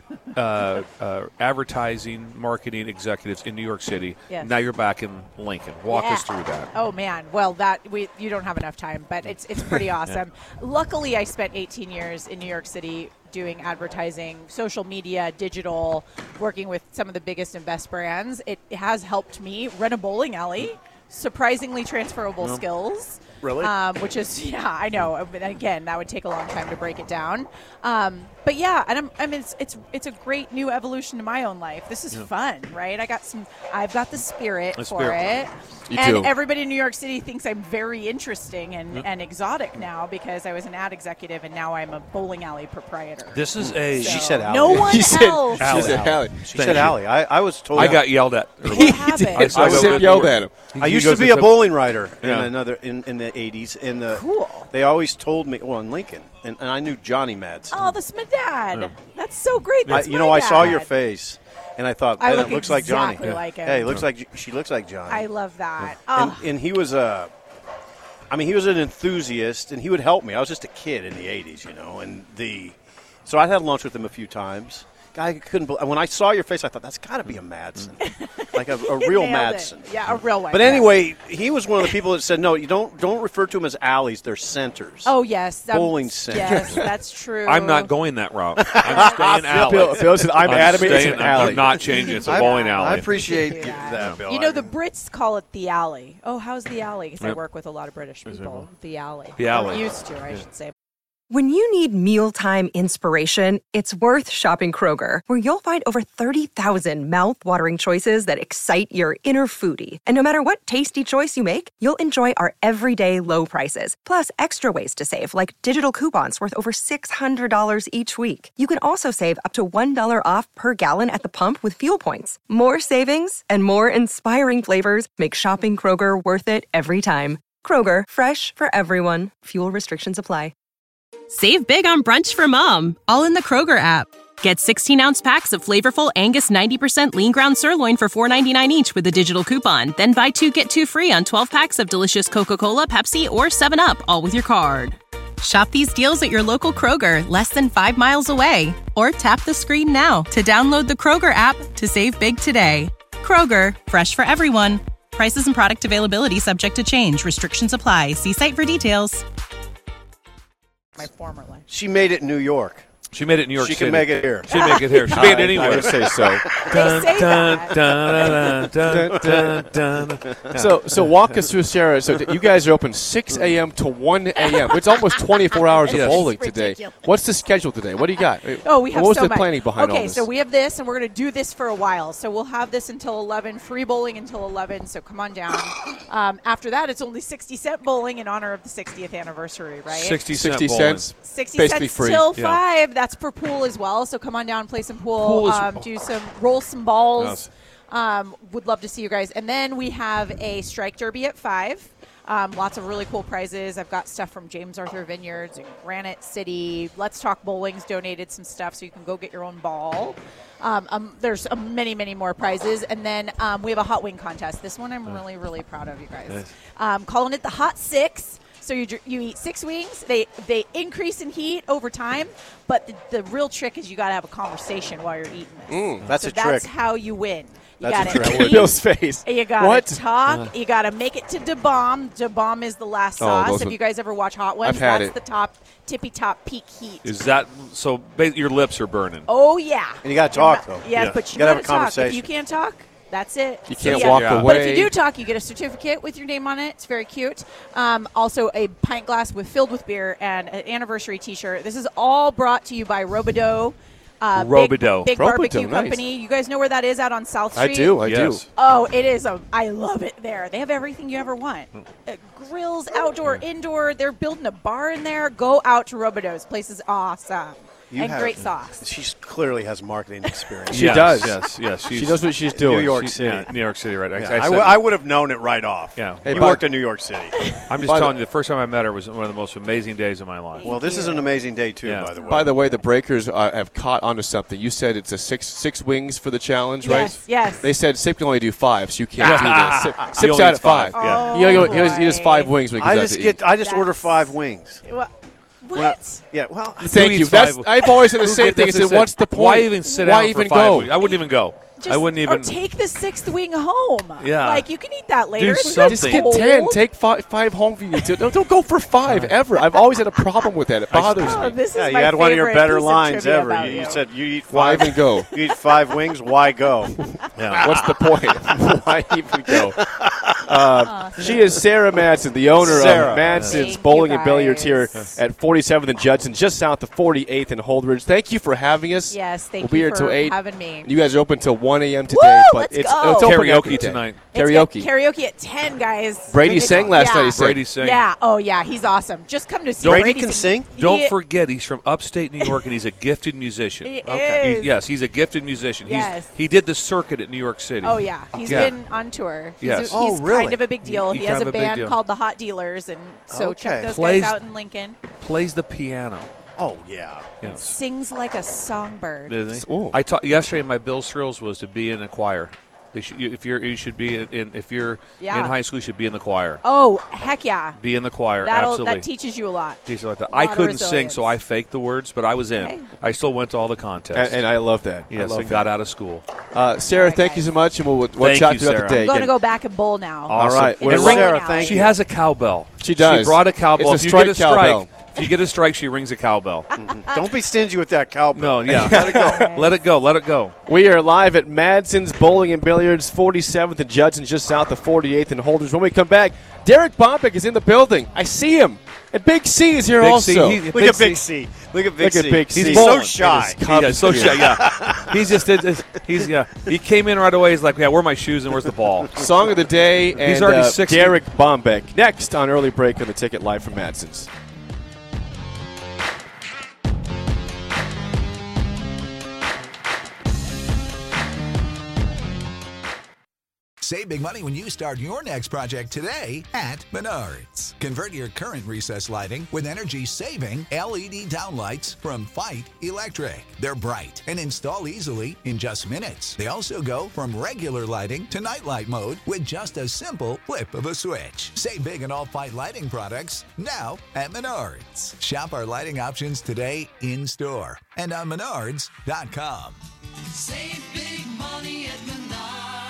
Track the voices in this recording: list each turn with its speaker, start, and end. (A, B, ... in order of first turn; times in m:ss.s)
0:00.3-0:06.7 A
0:05.9-0:43.4 B
0:23.4-0:23.7 C
0:34.8-0:35.3 A
0:35.9-0:36.3 D
0:43.3-0:47.0 A
0:43.6-0:45.0 C
0:44.0-0:46.0 B
0:44.8-0:46.5 D
0:45.6-0:48.2 C
0:47.8-0:52.5 A
0:48.6-0:50.7 D
0:48.7-0:49.7 B
0:49.5-0:50.0 C
0:50.8-0:57.8 C
0:54.1-0:54.7 B
0:57.7-1:00.9 B
0:59.9-1:05.3 C
1:02.2-1:03.9 B
1:03.2-1:04.0 A
1:05.1-1:06.5 B
1:06.1-1:07.3 C
1:08.3-1:18.0 C
1:17.3-1:17.9 A
1:18.0-1:21.1 B
1:18.5-1:19.9 C
1:20.5-1:25.2 C
1:25.0-1:27.9 B
1:25.7-1:26.8 C
1:26.4-1:26.7 D
1:27.4-1:33.1 A
1:28.6-1:34.7 C
1:28.8-1:29.3 B
1:30.8-1:40.7 B
1:38.2-1:38.7 A
1:39.4-1:40.4 A
1:41.3-2:10.5 E
2:11.3-2:39.2 F
2:41.0-2:41.6 B
2:41.7-2:42.8 C
2:43.1-2:50.7 A
2:43.5-2:46.8 C
2:44.5-2:45.4 B
2:45.1-2:46.4 D
2:46.6-2:47.8 B
2:48.5-2:49.7 C
2:48.8-2:49.4 D
2:50.3-2:50.6 C
2:50.5-3:00.3 D
2:55.6-2:57.0 B
2:55.9-2:56.3 A
2:58.6-3:10.2 B
3:09.9-3:11.1 A
3:10.3-3:12.3 D
3:11.2-3:57.1 B
3:12.3-3:12.6 A
3:15.2-3:15.8 A
3:17.2-3:17.5 A
3:45.7-3:46.1 D
3:46.1-3:46.7 C
3:47.8-3:48.7 C
3:47.8-3:50.0 D
3:53.2-3:53.8 D
3:54.6-3:55.2 D
3:57.0-3:59.3 A
3:59.2-4:18.0 B
4:00.0-4:02.3 C
4:03.7-4:04.9 D
4:03.8-4:04.6 A
4:14.3-4:15.1 A
4:15.1-4:16.0 D
4:17.5-4:18.4 D
4:18.0-4:18.5 A
4:18.6-4:28.8 B
4:27.9-4:31.4 C
4:30.7-4:31.3 D
4:30.7-4:34.9 A
4:31.9-4:32.9 D
4:32.3-4:33.5 C
4:34.1-4:37.3 C
4:35.9-4:36.6 A
4:36.2-4:36.7 D
4:37.7-4:40.7 A
4:37.8-4:38.1 D
4:40.6-4:41.3 B
4:40.6-4:42.6 C
4:41.8-4:42.1 A
4:42.2-4:53.4 D
4:46.8-4:47.7 B
4:49.2-4:51.9 A
4:50.9-4:52.6 B
4:51.0-4:51.8 C
4:52.7-4:54.8 C
4:53.6-4:56.2 B
4:55.7-4:56.9 C
4:56.8-5:02.5 A
4:56.8-5:00.9 D
5:01.8-5:06.8 B
5:04.2-5:04.7 A
5:05.3-5:06.4 A
5:05.8-5:11.6 D
5:09.1-5:09.4 A
5:10.9-5:11.6 A
5:11.2-5:14.0 B
5:11.7-5:17.9 C
5:14.5-5:15.3 D
5:17.4-5:17.7 A
5:17.6-5:19.8 D
5:19.6-5:20.5 C
5:20.5-5:34.9 D
5:20.8-5:25.2 B
5:22.7-5:23.4 C
5:23.0-5:23.7 A
5:29.1-5:30.9 B
5:32.1-5:33.6 B
5:33.1-5:34.2 A
5:34.3-5:41.2 B
5:36.3-5:37.6 D
5:36.4-5:37.0 C
5:37.1-5:38.0 A
5:39.8-5:40.7 C
5:40.8-5:48.7 A
5:43.8-5:44.8 B
5:44.1-5:44.4 C
5:45.8-5:46.3 B
5:47.8-5:55.0 B
5:49.6-5:50.0 A
5:49.9-5:50.6 C
5:50.8-5:52.0 A
5:53.3-5:53.9 C
5:53.9-5:54.4 A
5:55.2-5:56.3 A
5:56.6-5:57.3 C
5:57.4-5:57.8 A
5:57.4-5:59.3 B
5:59.3-6:06.6 A
5:59.5-6:00.0 D
6:05.2-6:05.6 B
6:06.6-6:07.8 B
6:07.8-6:09.1 A
6:08.4-6:09.8 B
6:09.8-6:14.4 A
6:10.3-6:11.3 B
6:12.6-6:12.9 B
6:14.1-6:15.7 D
6:15.1-6:16.2 A
6:16.5-6:19.3 D
6:16.9-6:17.5 B
6:18.2-6:19.3 A
6:19.0-6:21.8 B
6:20.3-6:26.7 A
6:20.3-6:21.2 D
6:20.8-6:21.9 C
6:22.8-6:24.9 D
6:26.8-6:29.4 C
6:28.3-6:30.6 A
6:28.7-6:29.3 D
6:28.9-6:29.7 B
6:30.7-6:40.7 D
6:40.0-6:41.2 A
6:40.7-6:45.2 C
6:42.0-6:44.6 D
6:42.5-6:49.2 A
6:49.1-6:54.3 D
6:50.1-6:51.2 A
7:03.8-7:29.8 G